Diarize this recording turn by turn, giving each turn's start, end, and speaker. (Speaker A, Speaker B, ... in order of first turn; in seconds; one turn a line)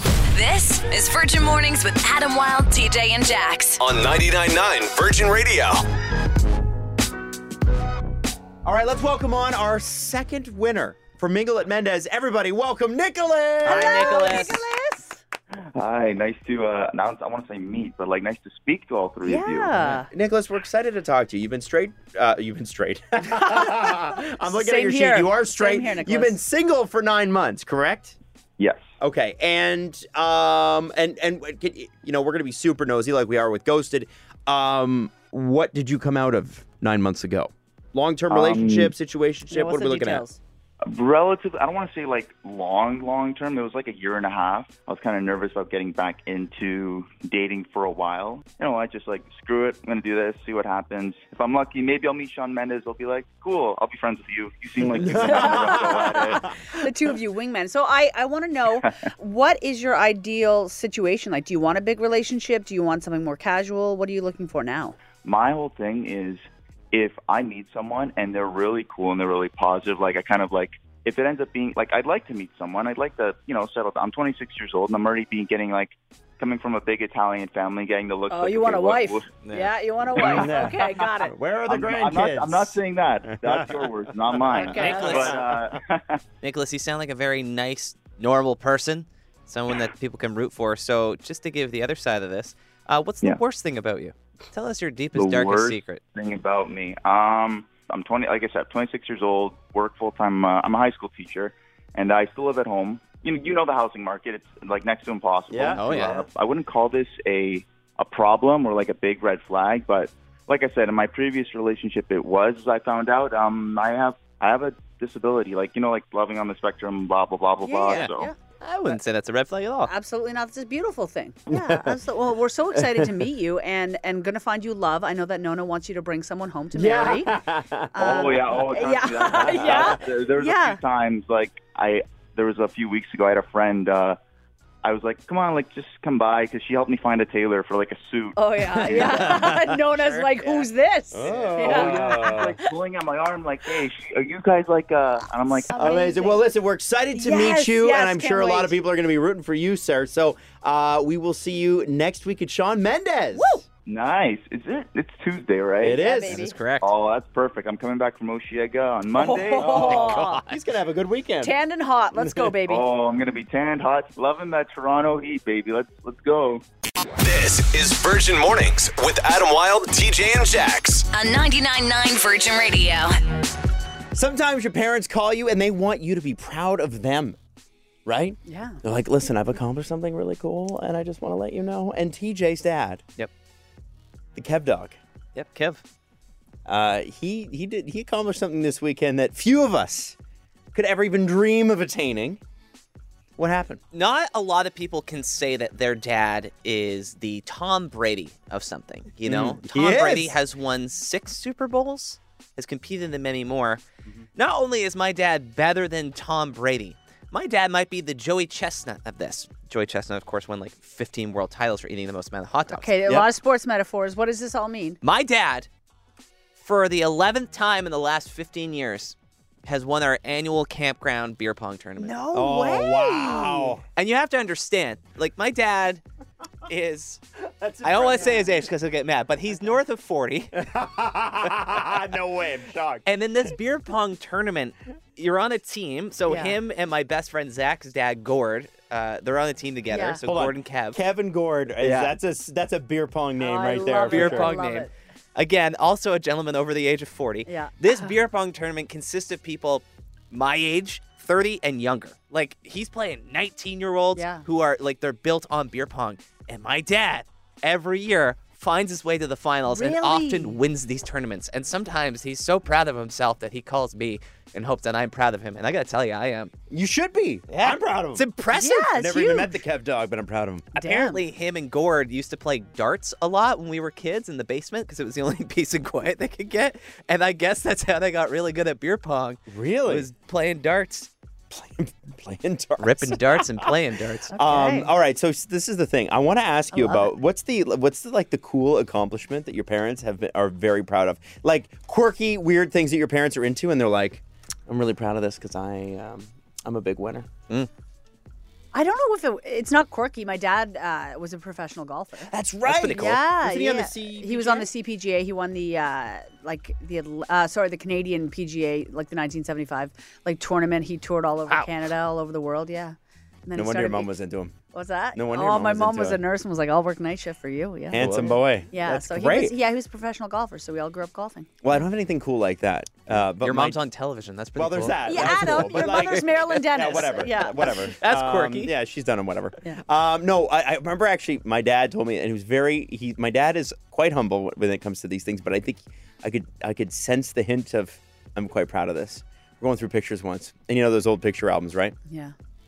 Speaker A: 0.3-3.8
Speaker B: 3.8-5.8
Speaker C: 8.6-14.5
Speaker D: 13.6-15.2
Speaker E: 13.7-14.6
Speaker F: 15.8-19.7
Speaker D: 19.2-20.1
Speaker C: 19.7-28.2
Speaker D: 23.6-26.4
Speaker F: 28.6-28.9
Speaker C: 29.0-40.2
Speaker F: 38.3-38.9
Speaker D: 39.5-40.4
Speaker F: 40.9-56.7
Speaker C: 54.9-56.7
Speaker D: 55.1-65.0
Speaker F: 65.2-79.3
Speaker D: 78.3-81.3
Speaker E: 79.4-79.7
Speaker C: 80.1-82.8
Speaker F: 81.7-86.2
Speaker C: 83.3-85.8
Speaker D: 84.5-85.4
Speaker E: 84.6-85.4
Speaker E: 86.4-96.0
Speaker F: 95.2-118.3
Speaker C: 105.5-106.2
Speaker E: 105.7-106.3
Speaker D: 117.6-118.4
Speaker E: 117.9-119.9
Speaker D: 119.9-127.4
Speaker C: 121.5-122.0
Speaker C: 122.7-123.3
Speaker C: 126.7-128.7
Speaker D: 127.9-130.8
Speaker F: 128.0-134.2
Speaker C: 129.3-130.0
Speaker F: 134.8-139.2
Speaker D: 138.4-142.7
Speaker C: 138.8-139.8
Speaker E: 139.0-139.3
Speaker E: 140.0-140.3
Speaker C: 141.1-142.6
Speaker F: 141.5-145.9
Speaker D: 145.7-146.4
Speaker C: 145.7-153.6
Speaker D: 147.1-148.8
Speaker D: 153.3-153.6
Speaker F: 153.9-156.0
Speaker C: 155.8-156.5
Speaker D: 156.0-156.6
Speaker E: 156.3-156.9
Speaker F: 156.8-159.9
Speaker D: 159.2-160.4
Speaker C: 159.3-161.5
Speaker E: 159.9-160.5
Speaker D: 161.4-162.8
Speaker C: 162.1-162.6
Speaker F: 162.6-166.6
Speaker B: 167.2-171.1
Speaker A: 171.1-173.2
Speaker C: 174.1-177.4
Speaker C: 178.1-183.0
Speaker D: 178.5-178.8
Speaker C: 184.3-185.0
Speaker E: 185.3-185.8
Speaker C: 186.7-190.2
Speaker C: 190.7-192.4
Speaker C: 193.4-193.8
Speaker E: 193.9-203.8
Speaker C: 199.2-200.4
Speaker E: 204.4-213.0
Speaker D: 212.7-215.0
Speaker E: 215.0-215.7
Speaker E: 216.6-222.2
Speaker D: 222.0-223.8
Speaker C: 222.3-223.8
Speaker E: 224.0-226.0
Speaker E: 226.7-227.2
Speaker C: 227.4-228.6
Speaker E: 227.8-230.6
Speaker C: 230.6-233.1
Speaker E: 233.1-241.0
Speaker D: 236.3-236.6
Speaker D: 239.9-240.2
Speaker C: 240.3-244.5
Speaker E: 241.8-242.1
Speaker D: 243.4-244.9
Speaker E: 243.9-266.5
Speaker D: 247.5-248.1
Speaker D: 254.2-254.4
Speaker D: 259.7-260.6
Speaker C: 266.7-268.2
Speaker E: 267.5-268.9
Speaker D: 268.5-269.6
Speaker C: 268.9-270.7
Speaker D: 270.8-271.2
Speaker E: 270.8-281.1
Speaker C: 279.5-280.1
Speaker C: 281.5-283.8
Speaker E: 282.8-284.3
Speaker D: 284.3-284.9
Speaker C: 284.4-297.3
Speaker D: 286.7-287.1
Speaker D: 298.7-302.3
Speaker C: 302.3-304.7
Speaker E: 302.6-303.2
Speaker D: 303.0-313.0
Speaker D: 313.5-314.1
Speaker C: 313.6-314.6
Speaker D: 314.7-321.5
Speaker C: 315.1-316.2
Speaker C: 317.9-319.6
Speaker E: 317.9-318.3
Speaker C: 321.6-323.8
Speaker E: 323.1-326.4
Speaker C: 324.6-342.0
Speaker D: 325.1-327.9
Speaker E: 326.9-328.7
Speaker D: 342.1-342.4